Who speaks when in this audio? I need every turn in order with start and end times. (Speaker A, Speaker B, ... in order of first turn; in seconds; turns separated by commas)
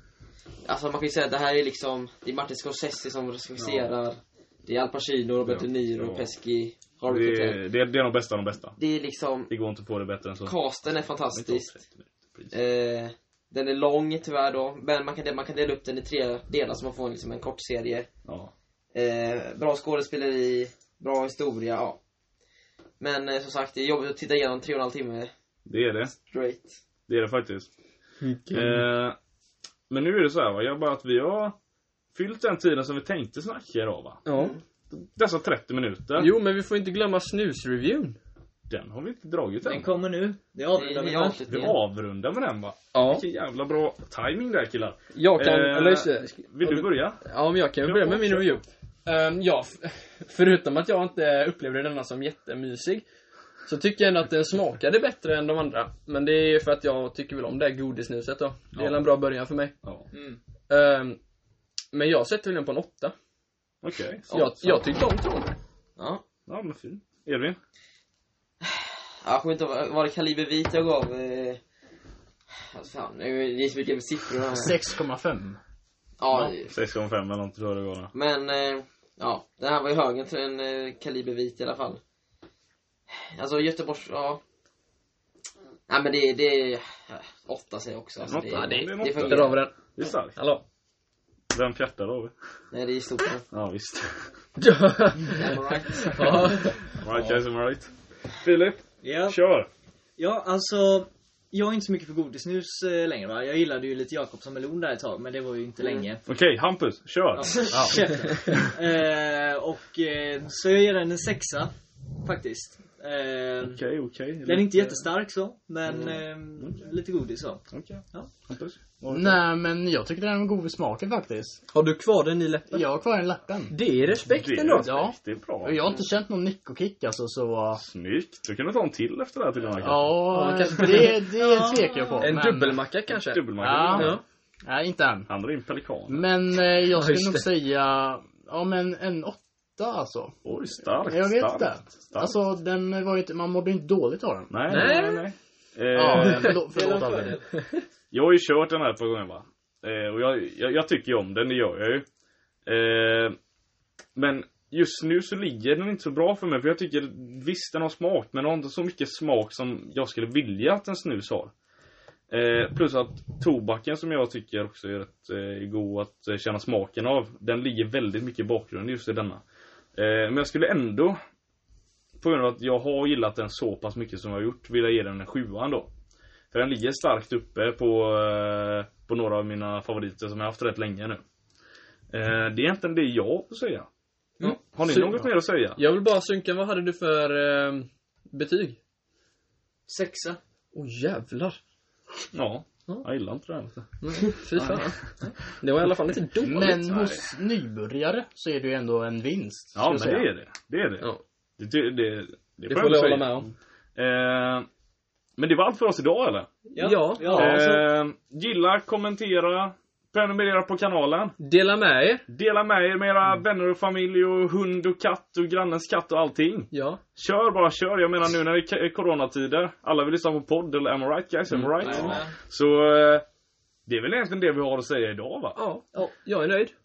Speaker A: 0.7-7.6, Speaker B: 3.6-3.9, Speaker B: 5.4-6.2, Speaker B: 7.1-8.8, Speaker A: 8.8-9.5, Speaker B: 9.5-10.5, Speaker A: 10.4-11.8, Speaker B: 11.3-12.5, Speaker A: 12.5-18.1, Speaker B: 18.3-18.5, Speaker A: 18.9-22.0, Speaker A: 23.0-25.3, Speaker B: 25.7-26.1, Speaker A: 26.1-26.8, Speaker B: 27.1-27.7, Speaker C: 28.2-28.9, Speaker B: 28.5-29.2, Speaker B: 29.9-31.6, Speaker B: 32.1-34.2, Speaker C: 34.2-34.6, Speaker A: 34.3-34.6, Speaker B: 34.9-36.3, Speaker C: 36.2-38.2, Speaker B: 38.7-39.9, Speaker D: 39.6-41.5, Speaker A: 40.7-41.8, Speaker B: 41.5-47.2, Speaker C: 42.9-43.3, Speaker C: 45.1-53.0, Speaker B: 47.8-48.5, Speaker C: 53.6-59.8, Speaker B: 58.8-59.1, Speaker D: 60.1-60.4, Speaker C: 60.7-61.2, Speaker C: 61.9-63.1, Speaker B: 63.8-64.8, Speaker C: 64.3-65.5, Speaker A: 66.0-66.2, Speaker B: 66.5-67.6, Speaker A: 68.6-71.6, Speaker A: 72.6-74.8, Speaker E: 74.5-75.6, Speaker A: 76.2-76.7, Speaker B: 76.7-78.1, Speaker A: 78.1-82.0, Speaker A: 83.1-84.4, Speaker A: 85.9-89.7, Speaker B: 88.3-90.4, Speaker C: 88.7-89.7, Speaker C: 90.4-90.6, Speaker B: 91.5-92.3, Speaker A: 92.7-93.5, Speaker B: 93.5-94.3, Speaker C: 94.6-96.8, Speaker A: 95.3-96.5, Speaker B: 97.0-99.7, Speaker D: 97.1-97.4, Speaker D: 99.0-99.4, Speaker D: 100.2-106.2, Speaker B: 106.3-107.5, Speaker D: 107.4-111.7, Speaker E: 107.7-108.0, Speaker D: 112.2-113.8, Speaker B: 113.6-115.1, Speaker D: 114.4-118.3, Speaker B: 116.6-116.9, Speaker B: 117.7-119.4, Speaker E: 119.1-121.6, Speaker C: 121.7-122.9, Speaker E: 122.7-123.8, Speaker C: 123.7-124.9, Speaker B: 124.3-125.8, Speaker E: 124.7-127.8, Speaker B: 127.8-130.2, Speaker E: 129.8-132.8, Speaker C: 130.2-131.3, Speaker D: 131.4-132.3, Speaker C: 132.2-134.2, Speaker B: 133.1-134.2, Speaker E: 133.6-135.3, Speaker B: 135.3-136.2, Speaker E: 136.1-140.4, Speaker C: 136.9-137.5, Speaker B: 140.4-142.3, Speaker E: 141.1-144.9, Speaker B: 144.5-146.6, Speaker C: 144.7-145.3, Speaker E: 145.9-147.4, Speaker C: 146.1-147.8, Speaker B: 148.1-152.1, Speaker B: 152.7-153.4, Speaker B: 154.2-161.5, Speaker B: 162.3-169.4, Speaker B: 170.0-171.2, Speaker B: 172.2-175.9, Speaker B: 176.5-181.2, Speaker B: 182.1-183.9, Speaker C: 184.4-188.8, Speaker B: 184.5-185.8, Speaker D: 189.9-190.4, Speaker C: 190.7-191.6, Speaker B: 192.3-193.9, Speaker C: 194.0-195.0, Speaker D: 194.6-195.3, Speaker C: 195.6-196.8, Speaker E: 196.4-200.3, Speaker B: 196.4-197.2, Speaker B: 199.8-204.7, Speaker C: 202.7-203.5, Speaker B: 205.4-206.5, Speaker C: 206.8-207.7, Speaker D: 206.8-207.8, Speaker B: 207.3-211.4, Speaker C: 211.4-212.3, Speaker B: 212.3-223.2, Speaker C: 216.7-217.0, Speaker C: 221.5-222.2, Speaker D: 221.8-222.3, Speaker B: 223.9-225.6, Speaker C: 225.6-226.7